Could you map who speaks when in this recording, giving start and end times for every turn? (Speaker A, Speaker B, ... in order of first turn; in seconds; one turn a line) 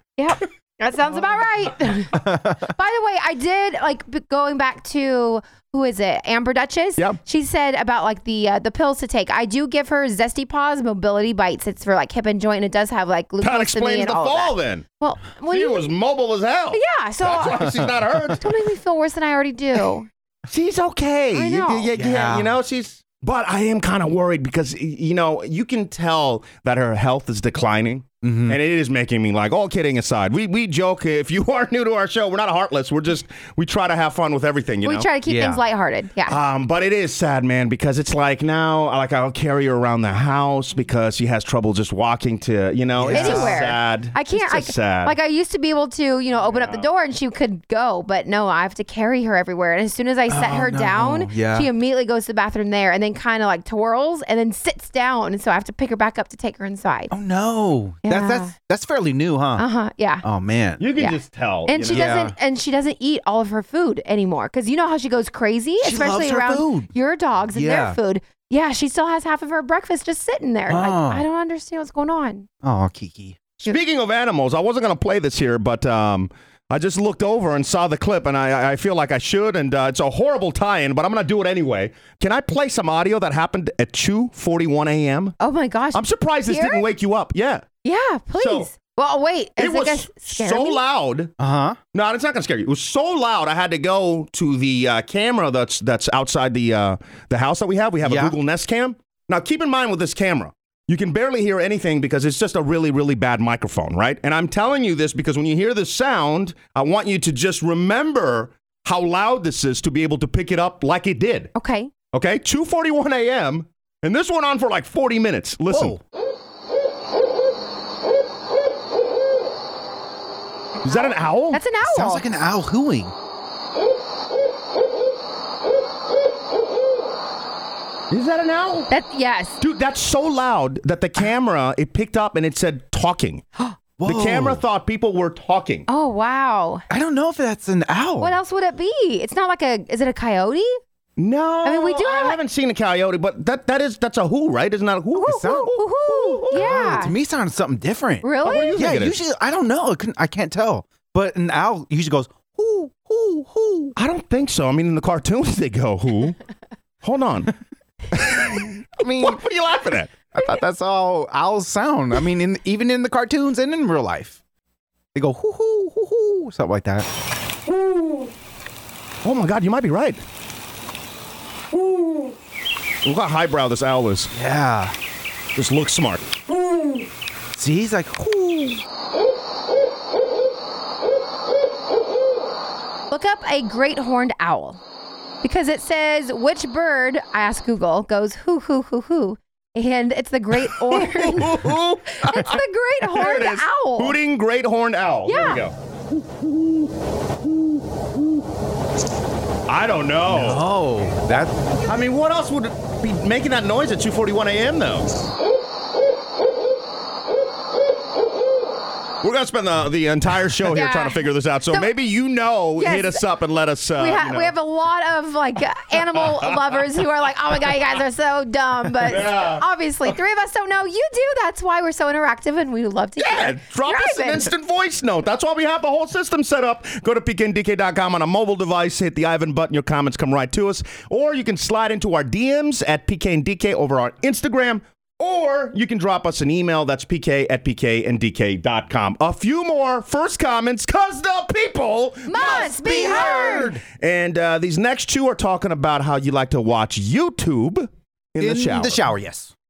Speaker A: 0.2-15.9
Speaker B: 2.2-2.6
Speaker C: 13.4-14.8
Speaker C: 15.5-18.4
Speaker A: 16.7-17.8
Speaker A: 18.4-20.1
Speaker C: 20.5-35.1
Speaker A: 21.3-21.9
Speaker B: 21.9-22.6
Speaker B: 28.2-28.6
Speaker A: 34.8-36.4
Speaker B: 35.3-35.6
Speaker C: 36.3-45.2
Speaker B: 43.0-43.6
Speaker A: 43.1-57.1
Speaker C: 46.4-46.9
Speaker B: 50.3-51.7
Speaker B: 57.1-59.7
Speaker A: 58.0-58.5
Speaker A: 59.6-60.2
Speaker B: 60.2-60.8
Speaker C: 60.8-62.2
Speaker A: 61.0-72.5
Speaker B: 61.9-62.4
Speaker B: 65.8-66.9
Speaker B: 67.5-68.0
Speaker B: 70.7-71.2
Speaker B: 72.6-73.4
Speaker C: 73.6-85.4
Speaker A: 85.4-86.8
Speaker C: 85.9-87.7
Speaker A: 87.8-90.8
Speaker C: 88.4-88.7
Speaker C: 89.6-91.3
Speaker B: 91.4-91.8
Speaker C: 91.9-111.5
Speaker B: 98.0-98.4
Speaker A: 111.5-111.9
Speaker C: 112.1-116.0
Speaker B: 115.7-116.0
Speaker C: 120.8-121.6
Speaker A: 120.8-122.2
Speaker B: 121.8-123.1
Speaker C: 128.1-128.9
Speaker A: 128.9-129.6
Speaker C: 129.6-133.4
Speaker B: 134.0-134.6
Speaker C: 134.0-135.9
Speaker A: 135.9-136.8
Speaker B: 136.9-138.4
Speaker A: 138.2-140.8
Speaker C: 141.2-146.9
Speaker A: 141.7-142.4
Speaker A: 145.2-147.2
Speaker B: 145.2-145.8
Speaker B: 146.5-153.9
Speaker A: 148.2-148.8
Speaker C: 148.4-149.2
Speaker C: 154.0-156.4
Speaker C: 157.0-157.5
Speaker C: 158.1-160.1
Speaker B: 159.0-159.4
Speaker B: 160.3-164.4
Speaker B: 165.1-167.1
Speaker C: 169.2-170.2
Speaker C: 173.0-174.3
Speaker B: 174.3-174.9
Speaker C: 175.6-176.2
Speaker B: 177.5-178.8
Speaker A: 183.1-184.8
Speaker A: 185.4-194.2
Speaker C: 190.6-192.6
Speaker C: 193.1-195.7
Speaker A: 195.3-195.6
Speaker C: 199.7-200.7
Speaker B: 200.3-201.8
Speaker C: 201.9-205.1
Speaker C: 209.2-214.5
Speaker A: 210.7-211.9
Speaker A: 212.8-213.2
Speaker A: 214.0-224.5
Speaker C: 219.1-219.6
Speaker C: 223.2-249.0
Speaker A: 242.3-243.7
Speaker B: 242.4-243.8
Speaker B: 248.4-249.5